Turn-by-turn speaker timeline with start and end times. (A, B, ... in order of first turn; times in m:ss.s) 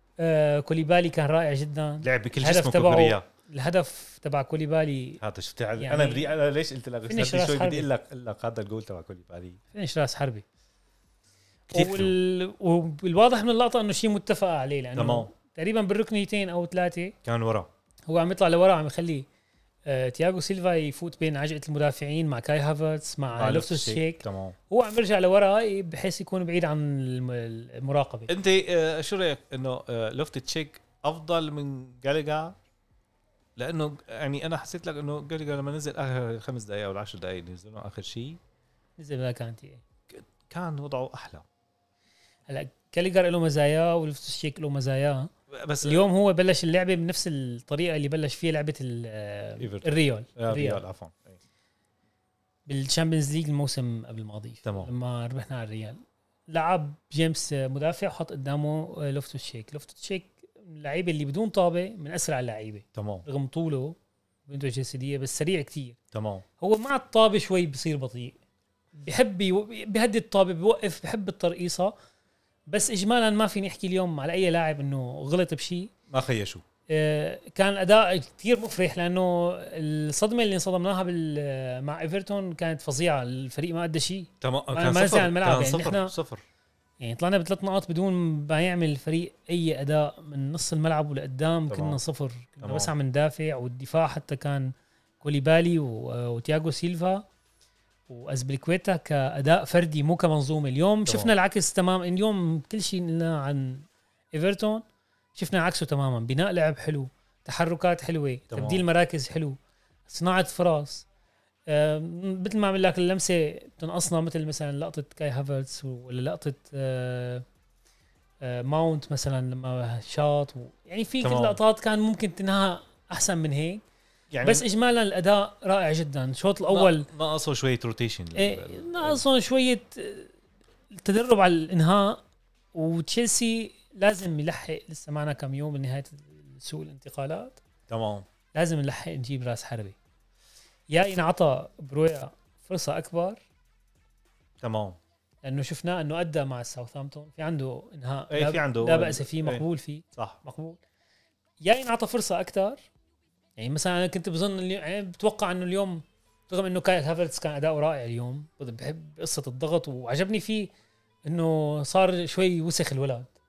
0:00.2-0:05.2 A
0:02.0-0:03.2 B
0:05.2-0:09.6 B
0:05.8-0:06.3 A
0:07.1-0:07.9 A
0:09.7-0:10.4 A
0:11.7-0:17.1 A
0:11.7-0:12.2 B
0:15.0-0:15.3 B
0:17.2-0:17.7 B
0:18.1-0:19.2 A
0:19.8-0:28.3 A
0:23.3-0:24.6 B
0:28.3-0:32.6 B
0:33.6-0:38.4 B
0:39.0-0:39.8 A
0:40.1-0:41.4 B
0:42.5-0:45.3 A
0:45.5-0:46.1 B
0:45.8-0:50.8 A
0:49.6-0:51.4 B
0:52.6-1:06.0 A
0:54.6-0:54.9 B
1:02.9-1:03.2 B
1:06.1-1:06.4 B
1:06.6-1:08.4 A
1:09.0-1:11.9 A
1:12.7-1:15.9 A
1:16.1-1:16.6 B
1:16.9-1:26.1 A
1:24.4-1:26.4 B
1:27.0-1:37.2 A
1:31.7-1:32.0 B
1:32.6-1:32.9 B
1:38.1-1:44.8 A
1:41.1-1:41.3 B
1:45.3-1:49.6 A
1:48.5-1:48.8 B
1:50.1-1:51.0 A
1:51.7-1:57.4 A
1:58.4-2:03.8 A
2:01.2-2:01.6 B
2:04.3-2:04.6 B
2:04.4-2:07.1 A
2:06.7-2:09.2 B
2:08.4-2:10.3 A
2:10.9-2:12.2 A
2:12.7-2:17.6 A
2:17.9-2:18.2 B
2:18.5-2:19.9 A
2:20.9-2:23.4 A
2:24.6-2:25.0 B
2:25.4-2:30.8 A
2:28.3-2:29.6 B
2:31.6-2:32.8 A
2:33.6-2:40.7 A
2:41.2-2:43.3 A